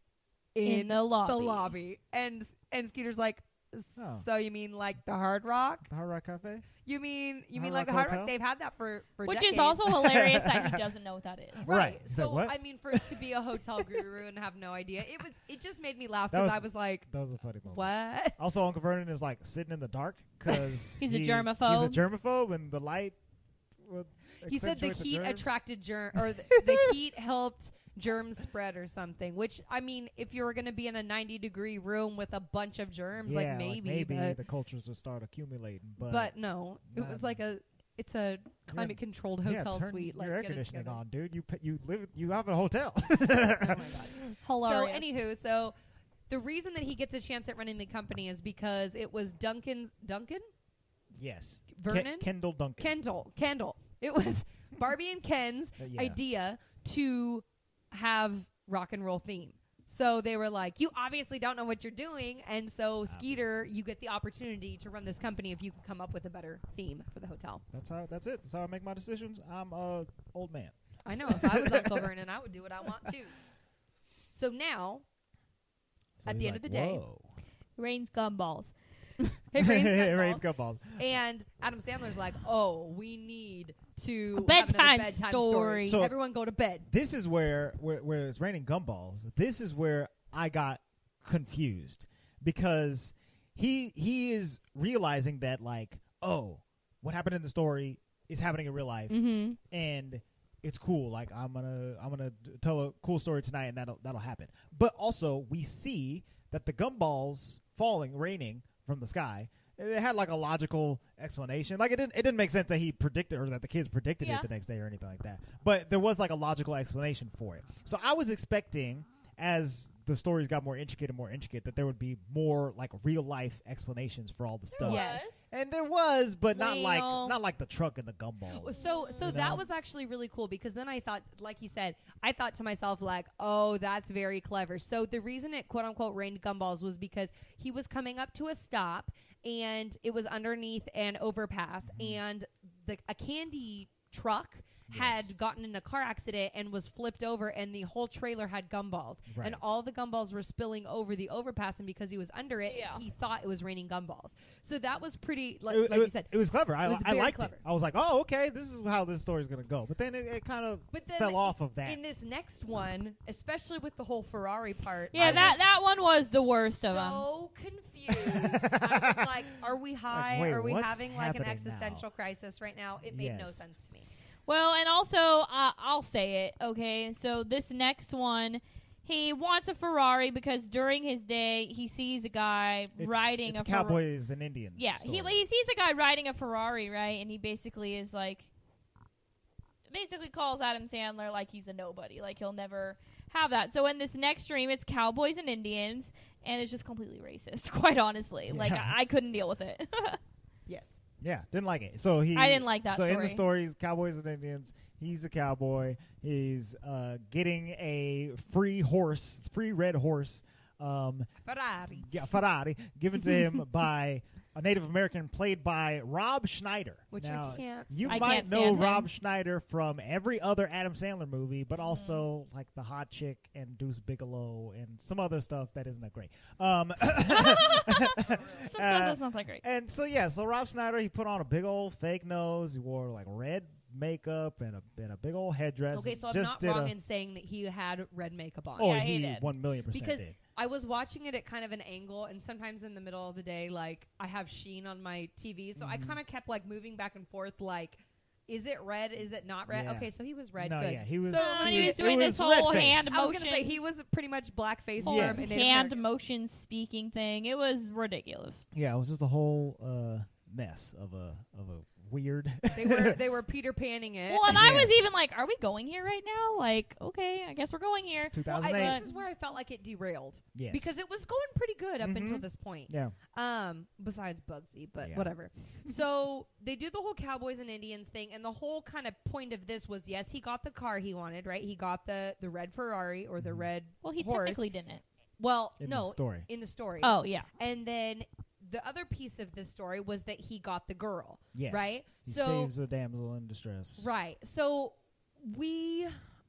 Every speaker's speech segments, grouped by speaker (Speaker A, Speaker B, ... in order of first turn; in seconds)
Speaker A: 0.6-5.9, 6.8-9.8, 11.6-17.1, 17.7-18.4, 24.4-34.4, 36.0-41.0, 43.3-45.8, 46.3-50.5, 51.7-67.6, 71.0-73.3, 74.3-75.0, 76.2-77.0, 79.2-80.5, 81.0-86.9, 99.1-99.6, 124.8-125.3, 126.5-127.4, 128.6-157.6, 160.9-165.6, 166.8-174.1, 200.7-201.0, 211.4-212.1, 217.1-218.5, 235.9-239.0, 239.9-252.3, 253.1-256.0, 262.7-264.9, 268.5-284.6, 285.4-292.7, 294.0-296.2
Speaker B: 0.6-1.8, 9.3-11.7, 21.0-22.0, 44.3-45.1, 77.8-78.7, 84.3-86.0, 114.2-114.5, 124.7-125.3, 128.8-129.4, 152.7-153.0, 165.1-167.2, 174.5-184.0, 184.8-188.5, 189.9-200.2, 202.3-203.4, 218.1-219.1, 221.8-222.2, 227.3-229.6, 238.8-239.4, 251.3-253.8, 255.0-258.6, 264.3-269.2, 284.0-285.0, 287.0-287.5
Speaker C: 4.0-4.3, 5.9-6.7, 7.5-8.3, 9.8-10.8, 11.6-14.1, 16.3-23.2, 23.8-25.5, 26.2-26.9, 33.2-36.3, 36.9-37.4, 38.7-44.0, 51.1-52.9, 55.8-56.2, 63.1-63.7, 67.7-72.1, 76.2-77.3, 79.6-81.1, 85.9-86.2, 86.9-129.7, 141.9-142.2, 144.9-145.4, 149.3-149.6, 155.7-162.0, 165.1-165.8, 168.1-169.3, 170.1-172.0, 173.1-173.7, 183.0-185.4, 198.5-199.0, 201.2-211.3, 212.0-236.9, 238.8-240.4, 245.8-246.2, 249.7-253.2, 255.0-255.5, 258.7-263.2, 264.5-265.1, 268.3-269.1, 270.5-270.9, 272.0-273.1, 275.0-275.3, 283.4-283.7, 285.8-286.5, 291.5-294.1